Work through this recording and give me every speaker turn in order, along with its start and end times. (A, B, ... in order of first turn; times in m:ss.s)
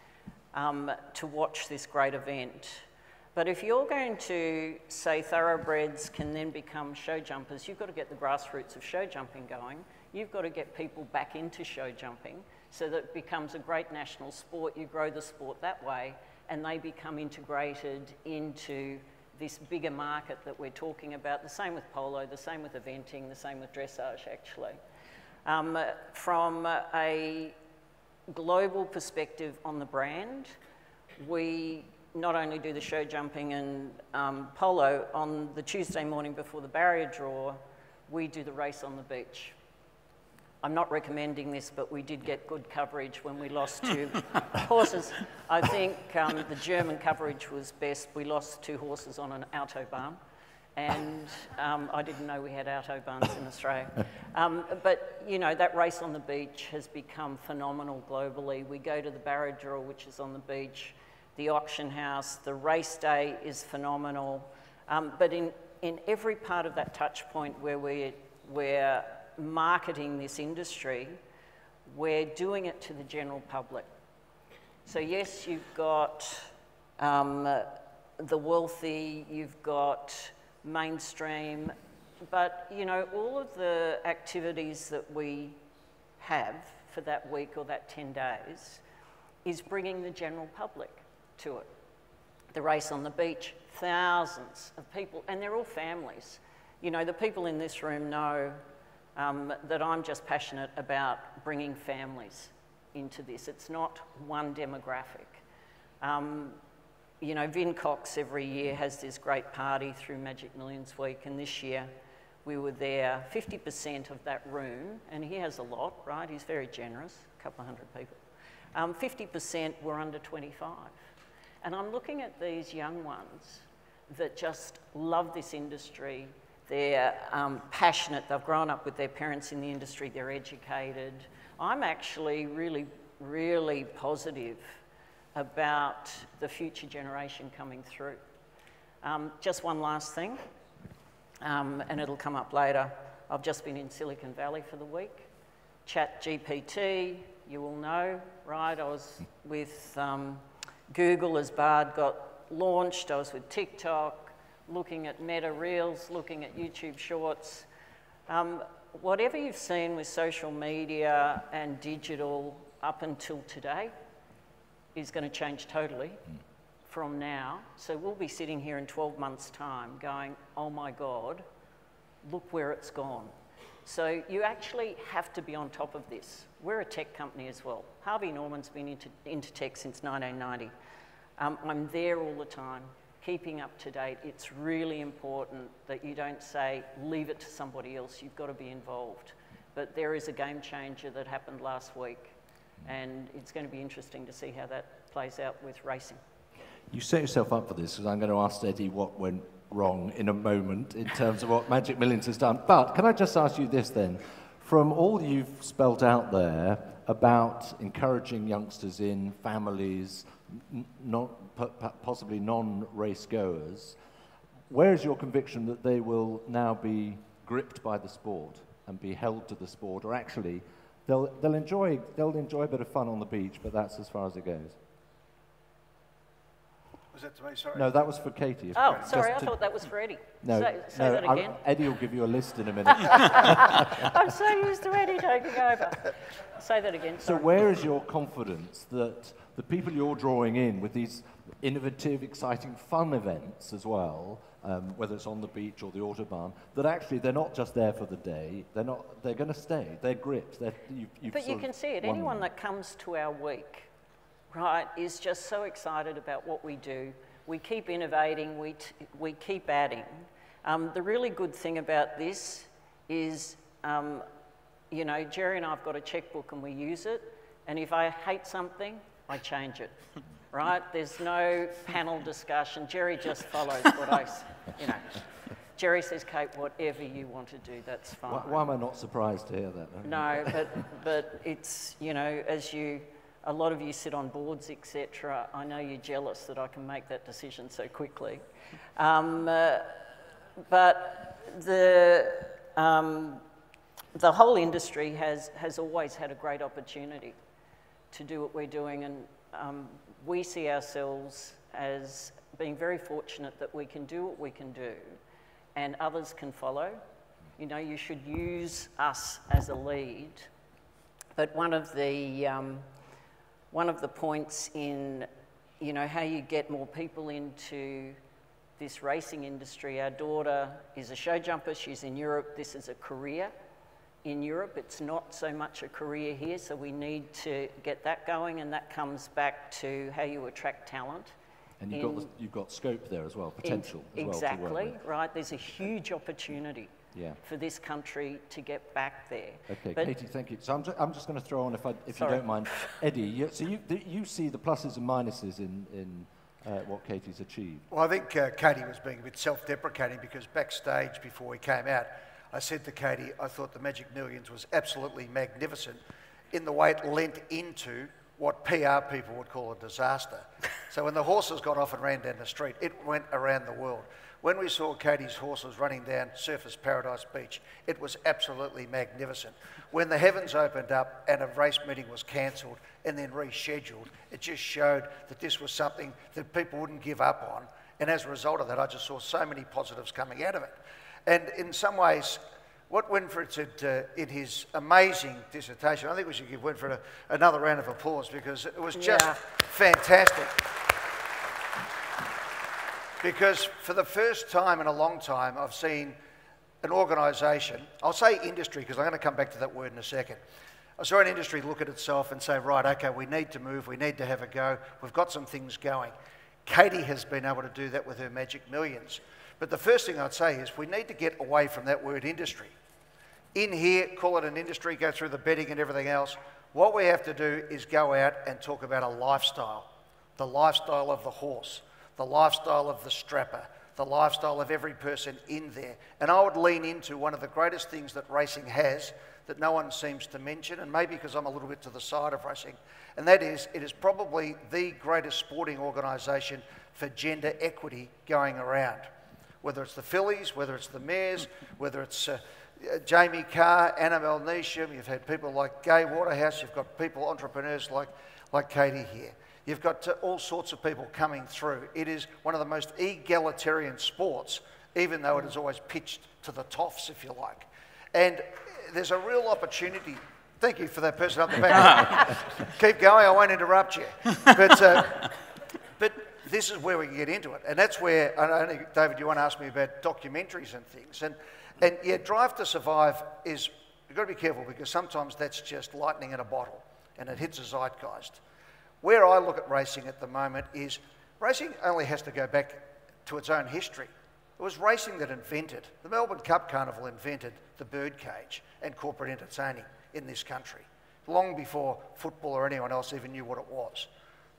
0:00.5-0:24.8 A
0:25.4-0:27.5 A
0:28.3-0:30.5 A
0:31.2-0:39.5 A
0:40.6-0:50.2 A
0:50.8-1:11.2 A
1:11.8-1:13.9 A
1:14.8-1:21.7 A
1:22.2-1:25.6 A
1:26.2-1:28.8 A
1:29.4-1:31.7 A
1:32.5-1:38.6 A
1:39.2-1:45.4 A
1:46.0-1:46.6 A
1:47.2-1:51.9 A
1:52.4-1:58.2 A
1:58.7-2:00.9 A
2:01.6-2:14.8 A
2:15.3-2:18.2 A
2:19.0-2:20.4 A
2:21.4-2:25.3 A
2:25.8-2:37.7 A
2:38.3-2:43.9 A
2:44.9-2:46.2 A
2:46.9-2:51.4 A
2:52.2-3:00.7 A
3:01.4-3:16.2 A
3:16.9-3:34.0 B
3:34.7-3:44.8 B
3:47.1-3:47.9 C
3:47.7-3:49.5 B
3:48.7-3:51.6 A
3:50.4-3:54.1 B
3:53.0-3:57.5 A
3:57.2-4:12.5 B
4:11.3-4:13.9 A
4:14.5-4:24.2 A
4:24.9-4:35.2 A
4:35.7-4:38.7 A
4:38.2-4:40.7 B
4:40.0-4:48.4 A
4:49.0-4:50.0 A
4:50.7-4:53.4 A
4:54.1-4:57.4 A
4:58.1-5:05.2 A
5:05.7-5:07.0 A
5:07.6-5:10.5 A
5:11.4-5:12.9 A
5:13.7-5:15.3 A
5:15.8-5:18.2 A
5:18.8-5:23.5 A
5:24.2-5:31.3 A
5:31.8-5:35.0 B
5:31.9-5:32.3 A
5:33.6-5:36.9 A
5:37.1-5:37.4 B
5:37.4-5:40.1 A
5:39.7-5:47.9 B
5:42.1-5:43.0 A
5:47.9-5:56.0 C
5:56.5-6:30.7 C
6:28.9-6:29.4 A
6:33.2-6:36.2 C
6:36.8-6:40.4 C
6:41.0-6:46.1 C
6:46.6-6:52.7 C
6:53.5-7:19.1 C
7:19.6-7:45.3 C
7:46.0-7:58.4 C
7:59.0-8:14.1 C